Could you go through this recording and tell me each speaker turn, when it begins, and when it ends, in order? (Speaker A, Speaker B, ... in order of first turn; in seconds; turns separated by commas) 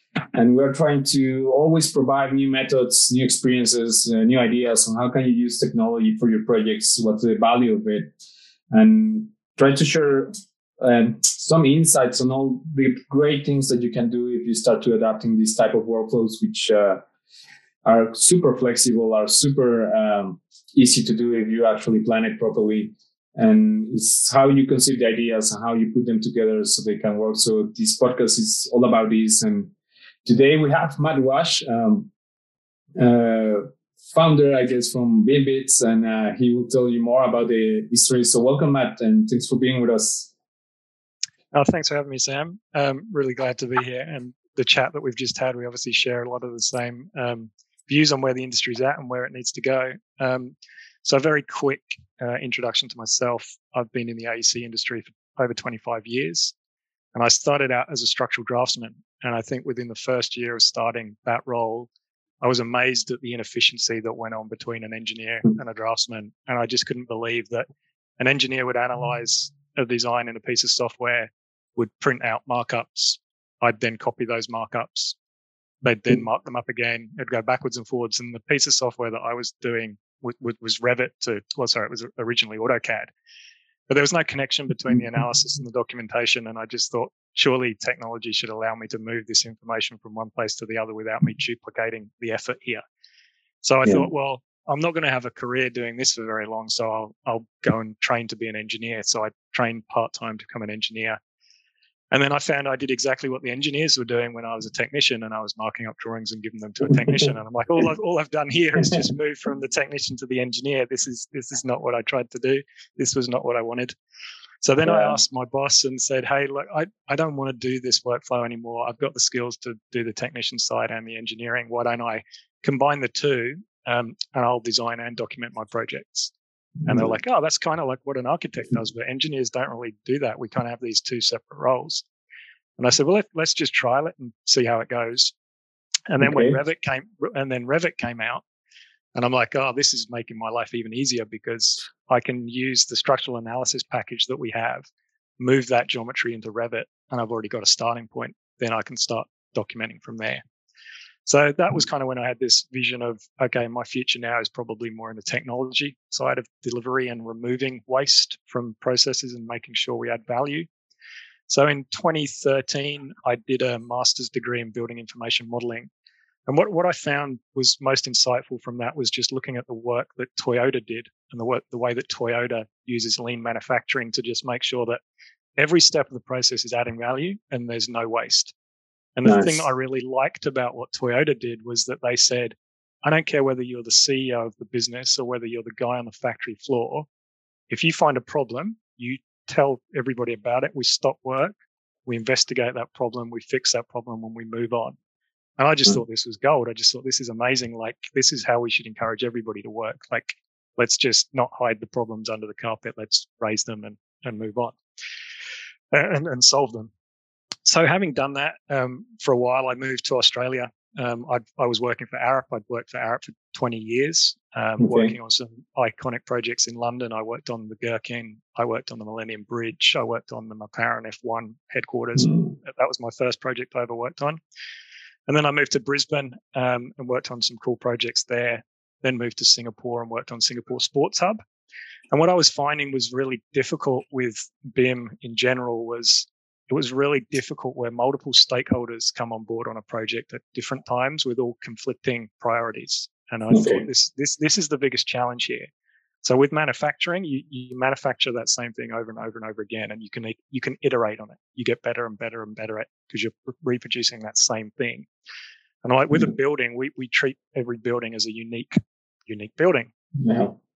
Speaker A: 0.3-8.1, Speaker A: 8.7-17.0, Speaker A: 17.8-29.7, Speaker A: 30.2-32.1, Speaker A: 33.0-40.3, Speaker B: 41.5-56.5, Speaker B: 57.1-61.9, Speaker B: 62.4-67.7, Speaker B: 68.2-75.2, Speaker B: 75.8-83.1, Speaker B: 83.9-92.8, Speaker B: 93.6-101.2, Speaker B: 102.1-114.0, Speaker B: 114.6-126.3, Speaker A: 114.8-115.2, Speaker B: 126.8-132.0, Speaker B: 132.8-135.3, Speaker B: 136.1-138.4, Speaker A: 136.2-136.6, Speaker B: 139.1-144.9, Speaker B: 145.4-150.4, Speaker B: 151.2-160.7, Speaker B: 161.5-165.9, Speaker B: 166.5-175.0, Speaker B: 175.6-178.5, Speaker B: 179.2-187.1, Speaker A: 179.2-179.6, Speaker B: 187.7-191.5, Speaker B: 192.1-194.9, Speaker B: 195.6-204.8, Speaker B: 205.9-206.9, Speaker B: 207.6-224.4, Speaker A: 214.8-215.1, Speaker B: 225.3-231.4, Speaker B: 232.1-245.7, Speaker A: 243.5-243.8, Speaker B: 246.2-255.1, Speaker B: 255.8-259.9, Speaker A: 260.2-260.6